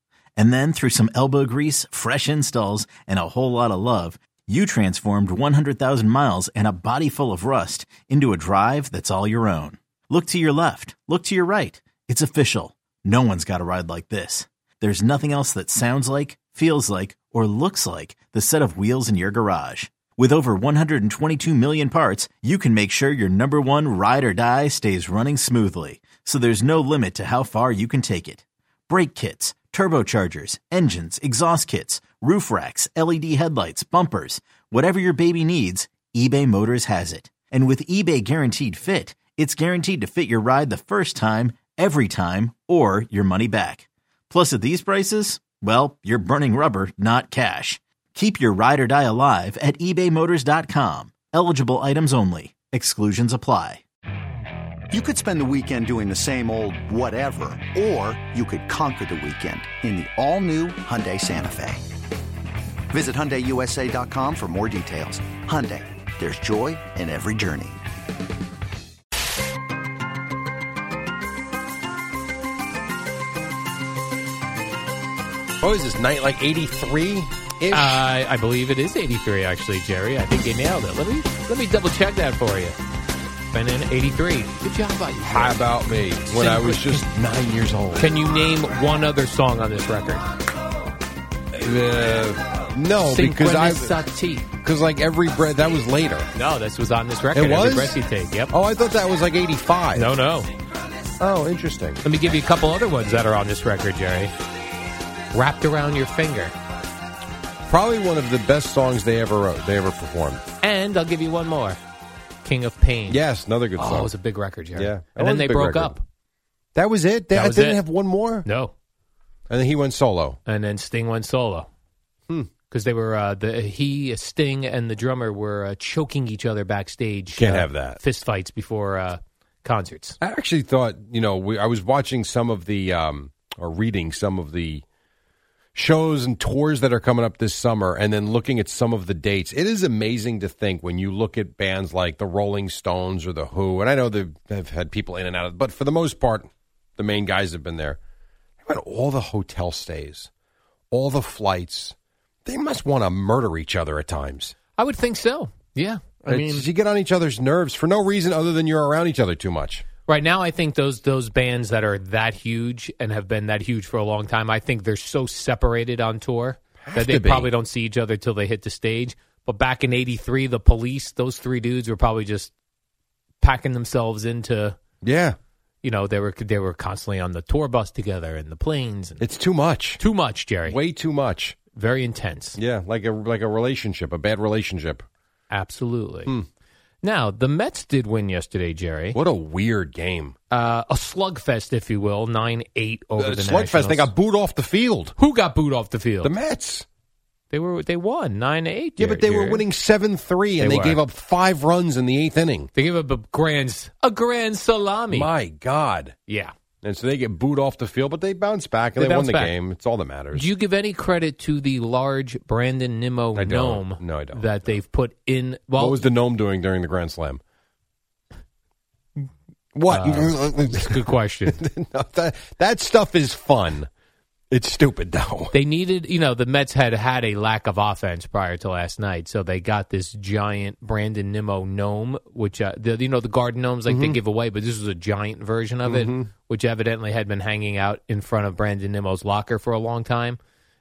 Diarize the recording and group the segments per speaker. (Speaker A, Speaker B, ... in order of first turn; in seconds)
Speaker A: 0.3-53.8
Speaker B: 54.9-61.8, 62.9-67.8
Speaker C: 75.6-78.0, 85.2-88.1, 91.5-96.3, 97.3-98.0, 98.5-100.1, 101.2-102.0, 107.7-110.4, 113.1-114.1, 114.8-116.0, 116.7-118.5, 119.5-120.4, 122.3-122.5, 127.3-128.0, 130.2-134.8, 135.7-148.0, 148.6-150.3, 150.9-151.9, 152.4-154.6, 156.2-159.8, 166.8-167.5, 175.0-175.3, 179.2-180.0, 180.6-181.6, 182.6-185.0, 189.1-190.3, 193.2-195.1, 196.2-196.8, 199.0-202.7, 205.1-206.1, 206.8-210.5, 213.3-214.7, 215.8-217.4, 219.7-223.9, 224.5-225.6, 233.9-234.2, 235.8-236.3
Speaker D: 77.7-82.8, 83.5-87.0, 88.0-90.2, 93.0-94.5, 96.3-98.5, 100.0-100.5, 102.0-104.3, 105.3-106.5, 110.6-111.8, 112.4-113.2, 113.8-116.0, 117.3-117.8, 118.4-118.7, 120.5-121.7, 122.7-130.2, 154.8-156.6, 160.1-172.5, 173.4-174.8, 175.8-179.2, 180.0-180.8, 181.7-182.6, 185.5-186.3, 187.0-189.2, 190.5-194.1, 195.2-196.3, 197.5-199.6, 200.6-201.0, 202.7-205.2, 206.3-206.5, 209.0-209.5, 210.3-216.0, 219.9-221.6, 225.5-240.4